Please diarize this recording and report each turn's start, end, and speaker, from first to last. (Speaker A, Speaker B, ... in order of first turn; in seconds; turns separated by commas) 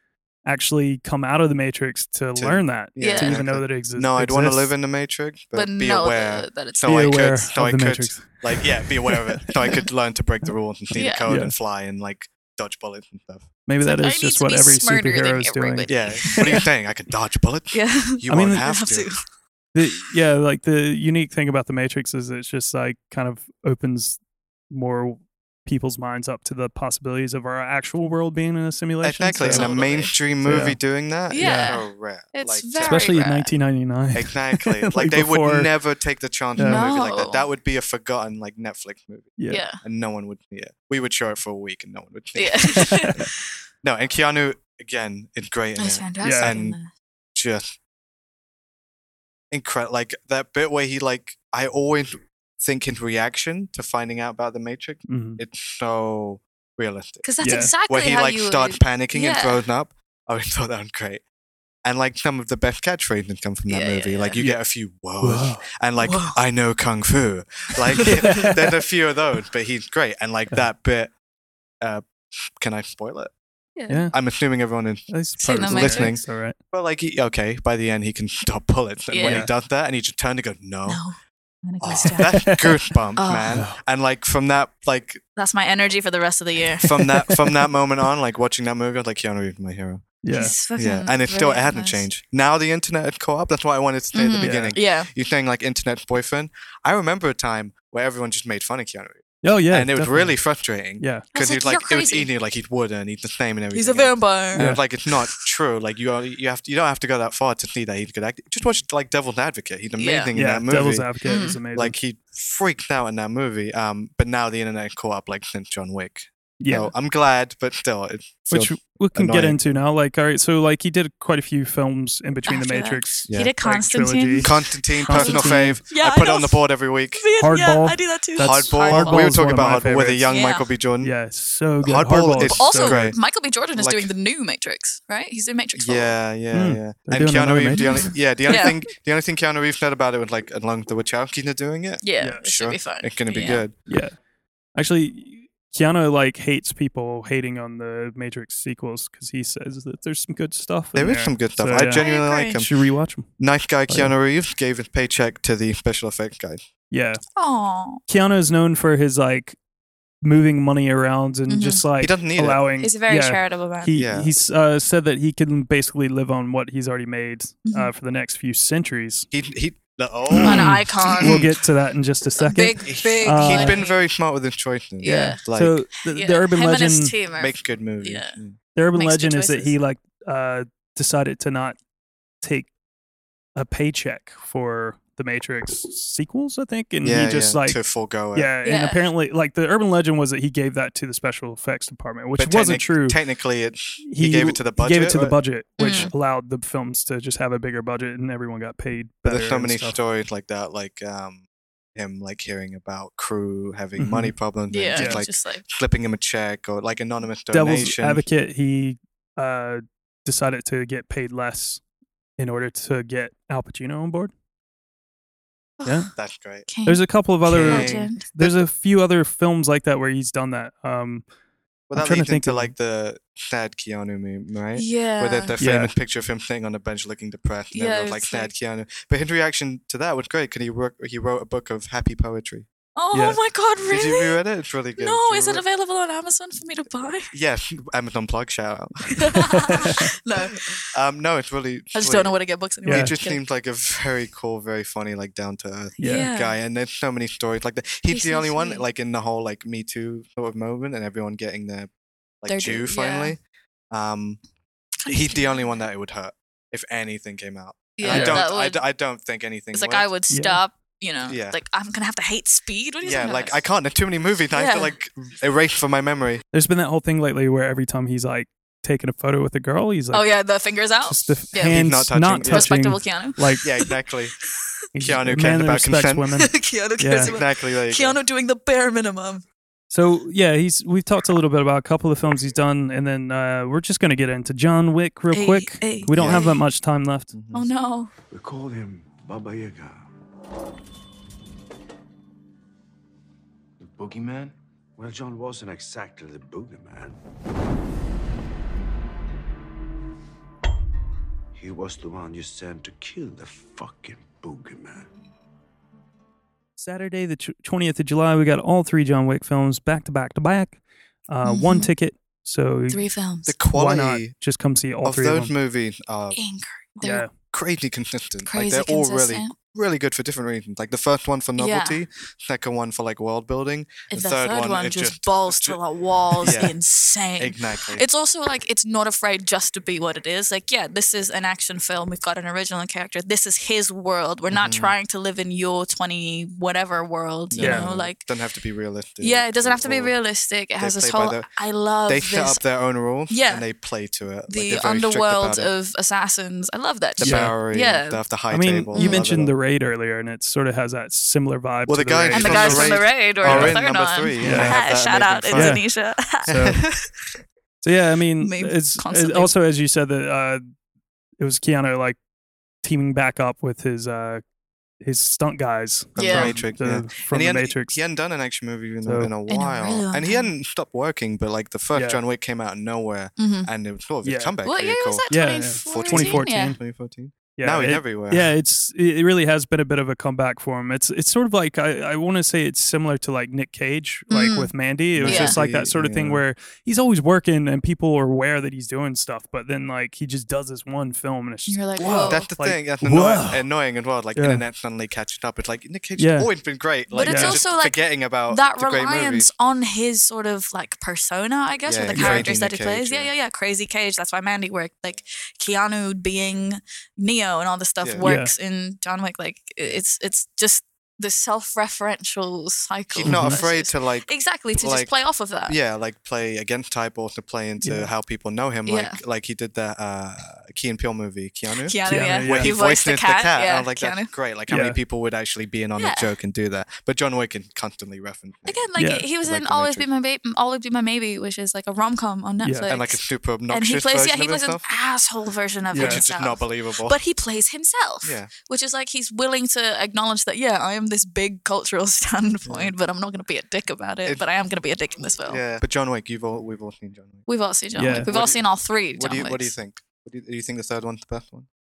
Speaker A: 0.4-4.8, Speaker B: 2.3-13.5, Speaker C: 3.0-3.4, Speaker C: 5.5-7.3, Speaker A: 6.8-9.5, Speaker C: 10.9-11.3, Speaker A: 11.3-11.6, Speaker A: 13.7-16.6, Speaker C: 13.8-16.6, Speaker B: 15.9-19.1, Speaker C: 17.7-19.2, Speaker A: 18.3-18.7, Speaker A: 19.7-24.2, Speaker A: 24.7-29.8, Speaker B: 29.0-33.1, Speaker C: 29.4-30.1, Speaker A: 30.4-30.8, Speaker C: 31.3-33.5, Speaker A: 31.4-31.8, Speaker A: 32.8-35.7, Speaker B: 34.1-43.2, Speaker A: 36.6-36.9, Speaker C: 36.6-37.4, Speaker A: 39.4-39.6, Speaker C: 39.5-39.8, Speaker C: 42.4-43.3, Speaker A: 42.8-43.2, Speaker B: 43.8-46.8, Speaker C: 45.8-46.9, Speaker A: 46.2-46.5, Speaker B: 47.3-47.8, Speaker B: 49.5-61.2, Speaker A: 55.1-55.4, Speaker C: 57.2-59.6, Speaker A: 57.4-57.7, Speaker B: 61.8-71.1, Speaker C: 63.7-64.4, Speaker A: 65.2-65.7, Speaker C: 66.0-66.4, Speaker C: 68.0-68.5, Speaker A: 68.2-68.5, Speaker B: 71.8-73.3, Speaker C: 73.8-74.1, Speaker A: 73.9-74.1, Speaker B: 74.1-81.0, Speaker A: 75.1-76.6, Speaker C: 75.4-76.1, Speaker C: 79.1-79.5, Speaker A: 79.2-79.5, Speaker C: 80.8-82.6, Speaker B: 81.8-85.2, Speaker A: 82.0-82.7, Speaker C: 83.2-83.6, Speaker A: 83.5-83.8, Speaker C: 85.4-87.0, Speaker B: 86.8-90.0, Speaker A: 90.2-90.5, Speaker C: 90.3-92.1, Speaker B: 90.8-119.6, Speaker C: 94.1-95.1, Speaker A: 94.4-94.8, Speaker A: 99.4-100.4, Speaker A: 101.0-101.2, Speaker C: 101.3-102.3, Speaker C: 103.7-104.7, Speaker A: 104.5-104.8, Speaker C: 110.0-110.3, Speaker A: 110.3-112.0, Speaker C: 111.2-111.6, Speaker A: 116.6-116.9, Speaker A: 118.5-125.8, Speaker C: 122.5-129.4, Speaker B: 123.3-123.5, Speaker B: 124.4-127.2, Speaker A: 127.4-130.3, Speaker B: 128.4-131.1, Speaker C: 130.3-130.7, Speaker A: 131.0-133.1, Speaker B: 131.8-133.2, Speaker C: 132.4-136.2, Speaker B: 133.8-134.1, Speaker B: 135.8-143.8, Speaker A: 136.5-138.8, Speaker C: 137.8-138.7, Speaker C: 142.0-143.7, Speaker A: 142.2-142.4, Speaker A: 143.9-144.2, Speaker A: 144.7-152.1, Speaker B: 150.9-152.7, Speaker C: 152.0-152.6, Speaker A: 152.6-153.3, Speaker B: 153.4-156.7, Speaker A: 153.9-154.1, Speaker A: 156.9-157.2, Speaker C: 157.3-158.0, Speaker A: 158.1-159.6, Speaker A: 160.2-169.3, Speaker C: 161.5-161.8, Speaker B: 162.0-162.6, Speaker C: 162.8-163.9, Speaker B: 163.9-164.3, Speaker C: 167.7-167.9, Speaker B: 169.3-171.5, Speaker A: 170.3-173.8, Speaker C: 170.4-171.4, Speaker C: 172.4-174.0, Speaker B: 172.8-175.8, Speaker C: 175.0-175.4, Speaker A: 175.0-177.1, Speaker C: 176.1-178.4, Speaker B: 177.3-178.6, Speaker A: 178.7-181.8, Speaker C: 178.9-179.7, Speaker A: 182.4-182.7, Speaker A: 183.6-187.8, Speaker B: 187.0-188.5, Speaker A: 188.3-193.2, Speaker C: 188.6-189.1, Speaker B: 192.3-196.1, Speaker A: 194.0-200.0, Speaker C: 195.8-196.1, Speaker B: 199.2-201.4, Speaker B: 201.9-208.2, Speaker A: 204.0-204.3, Speaker C: 204.7-205.6, Speaker A: 204.9-205.2, Speaker A: 207.5-211.8, Speaker A: 212.4-214.3, Speaker C: 215.8-216.1, Speaker B: 216.2-216.7, Speaker C: 216.7-217.0, Speaker A: 216.8-221.2, Speaker B: 217.4-218.6, Speaker C: 217.6-218.2, Speaker B: 221.9-232.7, Speaker A: 221.9-222.7, Speaker C: 224.7-225.5, Speaker A: 225.6-225.9, Speaker C: 227.7-228.5, Speaker C: 232.9-234.4, Speaker A: 233.1-233.4, Speaker B: 233.9-235.6, Speaker C: 235.0-237.3, Speaker B: 237.3-239.9, Speaker C: 239.2-240.8, Speaker A: 239.7-239.9, Speaker B: 240.9-251.9, Speaker C: 241.9-243.4, Speaker A: 242.8-243.1, Speaker A: 246.0-246.3, Speaker C: 246.0-246.6, Speaker C: 248.1-248.8, Speaker B: 252.4-253.4, Speaker C: 252.5-253.3, Speaker B: 253.9-254.4, Speaker C: 255.0-255.8, Speaker B: 255.1-260.1, Speaker C: 258.0-258.8, Speaker A: 258.0-258.4, Speaker C: 259.7-263.6, Speaker A: 260.3-260.6, Speaker B: 261.2-261.6, Speaker B: 263.0-266.4, Speaker C: 264.5-264.9, Speaker A: 266.5-270.3, Speaker C: 270.1-271.8, Speaker A: 271.1-273.6, Speaker B: 271.5-272.8, Speaker C: 272.4-273.9, Speaker B: 273.6-274.4, Speaker A: 274.9-277.3, Speaker B: 275.0-276.3, Speaker C: 276.4-279.4, Speaker B: 277.2-278.2, Speaker A: 279.9-287.3, Speaker C: 285.3-286.6, Speaker B: 286.1-286.4, Speaker B: 287.3-287.7, Speaker C: 287.5-288.1, Speaker D: 288.3-290.1, Speaker D: 293.8-297.2, Speaker D: 301.5-305.1, Speaker A: 306.8-313.0, Speaker C: 311.4-311.9, Speaker C: 312.9-313.6, Speaker B: 313.4-314.3, Speaker A: 313.7-315.5, Speaker B: 315.0-316.4, Speaker C: 316.3-317.3, Speaker A: 317.0-317.3, Speaker B: 317.5-325.8, Speaker C: 318.4-319.5, Speaker C: 321.6-322.0, Speaker C: 324.1-338.2, Speaker B: 326.4-326.7, Speaker B: 327.4-328.0, Speaker B: 334.5-334.9, Speaker B: 337.5-340.1, Speaker A: 337.6-337.9, Speaker C: 339.2-342.6, Speaker B: 340.8-341.5, Speaker B: 342.1-345.7, Speaker C: 343.3-343.6, Speaker C: 344.5-348.2, Speaker B: 347.2-349.5, Speaker A: 347.2-347.5, Speaker A: 348.5-353.8, Speaker C: 348.9-349.2, Speaker B: 351.9-355.8, Speaker C: 352.3-356.5, Speaker A: 354.4-354.8, Speaker A: 355.5-355.8, Speaker B: 356.4-356.9, Speaker A: 356.4-356.8, Speaker A: 357.8-360.6, Speaker C: 358.4-359.5, Speaker A: 361.4-362.2, Speaker A: 362.8-364.4, Speaker A: 365.0-368.0, Speaker B: 366.1-378.5, Speaker C: 366.2-366.6, Speaker A: 369.1-369.3, Speaker C: 369.5-370.5, Speaker A: 371.9-372.2, Speaker C: 373.4-373.7, Speaker A: 374.2-374.6, Speaker C: 374.6-376.8, Speaker A: 375.3-376.8, Speaker A: 377.6-393.6, Speaker C: 384.3-384.7, Speaker B: 385.1-386.4, Speaker C: 385.2-385.6, Speaker C: 391.7-392.4, Speaker B: 392.0-399.5, Speaker A: 394.3-394.6, Speaker A: 396.2-396.5, Speaker C: 397.1-415.8, Speaker A: 397.2-397.6, Speaker B: 401.9-403.3, Speaker A: 402.1-402.5, Speaker B: 408.0-408.3, Speaker A: 408.2-408.5, Speaker B: 413.1-415.1, Speaker A: 413.2-413.6, Speaker B: 415.6-428.9, Speaker A: 417.8-418.1, Speaker C: 418.9-419.2, Speaker C: 421.8-424.3, Speaker A: 422.1-422.7, Speaker A: 424.7-425.0, Speaker C: 426.0-426.3, Speaker C: 428.6-433.2, Speaker A: 429.0-429.2, Speaker B: 429.4-430.1, Speaker A: 432.6-432.9, Speaker B: 432.9-434.8, Speaker C: 433.7-445.6, Speaker A: 435.9-436.2, Speaker B: 435.9-437.2, Speaker B: 438.2-438.5, Speaker B: 442.6-442.9, Speaker B: 445.5-447.4, Speaker C: 447.5-449.7, Speaker A: 447.9-448.3, Speaker B: 448.1-451.7